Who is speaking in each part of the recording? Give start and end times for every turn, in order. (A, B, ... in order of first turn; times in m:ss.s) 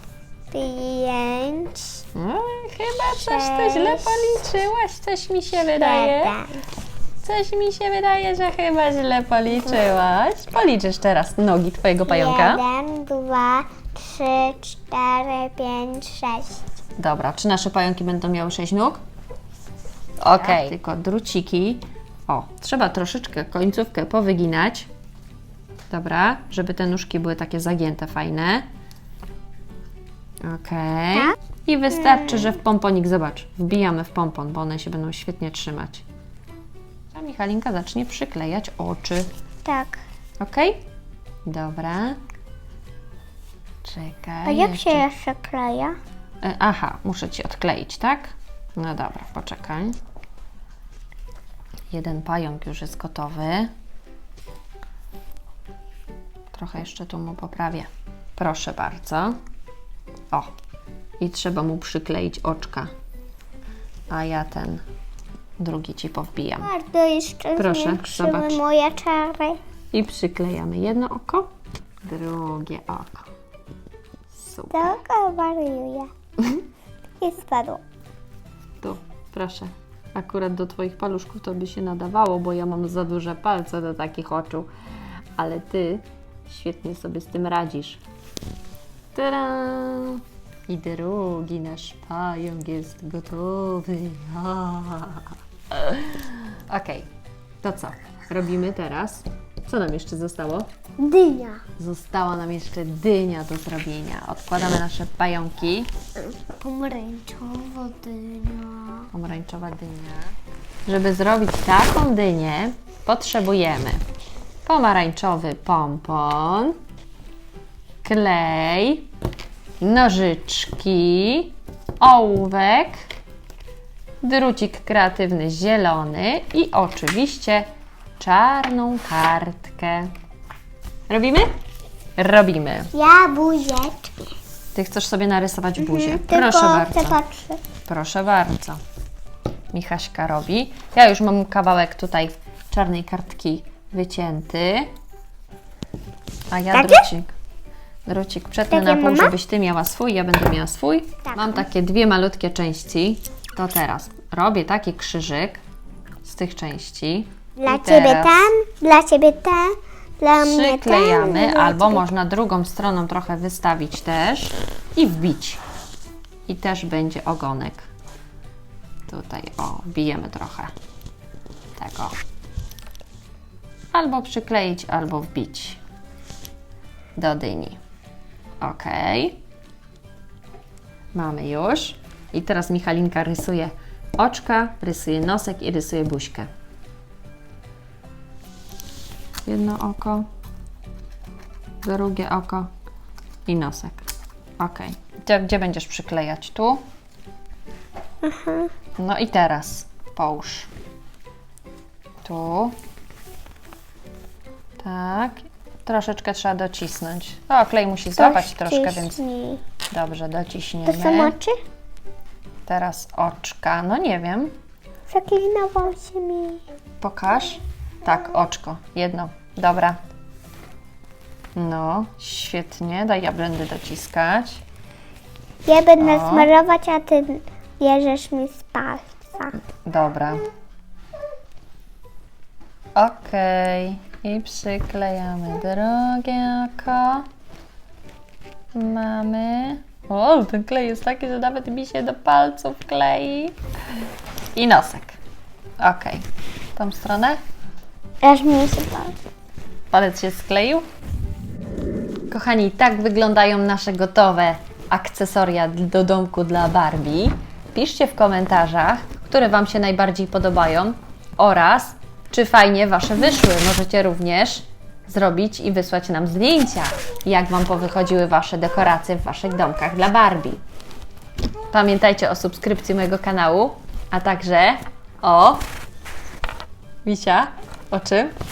0:00.5-0:02.0 A
0:02.1-0:06.4 B
0:03.1-0:04.4 A
0:05.8-0:06.6 A
0:07.2-0:12.6 B
0:12.1-0:16.6 A
0:17.0-0:19.0 B
0:20.2-0:24.9 B
0:20.3-0:20.7 A
0:25.9-0:28.7 B
0:30.4-0:36.0 B
0:32.1-0:32.6 A
0:37.1-0:39.3 B
0:39.6-0:40.0 A
0:40.4-0:40.8 B
0:41.5-0:42.2 B
0:43.8-0:45.1 B
0:44.4-0:46.0 A
0:46.4-0:50.0 B
0:51.9-0:53.7 B
0:56.5-0:59.4 B
1:01.2-1:02.9 B
1:04.1-1:04.8 B
1:05.6-1:06.7 B
1:06.6-1:09.6 A
1:07.6-1:08.6 B
1:09.9-1:11.5 B
1:12.0-1:13.3 B
1:14.3-1:15.0 B
1:14.7-1:16.1 A
1:17.2-1:17.8 A
1:18.8-1:24.7 B
1:25.4-1:28.0 B
1:29.2-1:37.1 B
1:37.6-1:40.7 B
1:41.0-1:41.6 A
1:41.8-1:45.9 B
1:46.2-1:49.1 A
1:49.1-1:50.3 B
1:50.9-1:54.0 B
1:54.6-1:56.8 B
1:58.0-1:59.1 B
1:59.8-2:03.0 B
2:04.2-2:07.7 B
2:08.2-2:10.1 B
2:11.1-2:11.5 B
2:12.2-2:12.9 B
2:12.9-2:14.2 A
2:14.8-2:17.2 B
2:15.8-2:17.6 A
2:17.8-2:18.8 B
2:19.7-2:24.9 B
2:26.5-2:27.3 B
2:26.7-2:27.0 A
2:28.1-2:35.6 B
2:28.7-2:29.3 A
2:36.2-2:38.5 B
2:37.6-2:42.0 A
2:40.4-2:45.6 B
2:46.5-2:47.9 B
2:49.1-2:50.7 B
2:51.8-2:52.2 B
2:53.9-2:55.8 B
2:57.2-2:57.8 B
2:58.6-2:59.4 B
3:01.1-3:06.5 B
3:09.4-3:10.3 B
3:11.8-3:12.7 B
3:13.5-3:14.1 B
3:14.6-3:16.8 B
3:18.2-3:18.7 A
3:19.0-3:20.7 B
3:22.2-3:22.8 B
3:24.8-3:29.2 B
3:28.2-3:29.6 A
3:29.9-3:31.4 B
3:30.9-3:31.6 A
3:32.7-3:34.5 B
3:35.1-3:36.6 A
3:37.0-3:40.0 B
3:41.6-3:44.6 B
3:45.6-3:49.6 A
3:46.0-3:46.5 B
3:49.8-3:50.4 B
3:53.0-3:57.3 B
3:58.8-4:03.6 B
4:04.6-4:05.2 B
4:05.8-4:07.4 B
4:08.2-4:09.2 A
4:09.9-4:10.8 B
4:12.3-4:30.6 B
4:31.7-4:35.6 B
4:37.0-4:38.3 B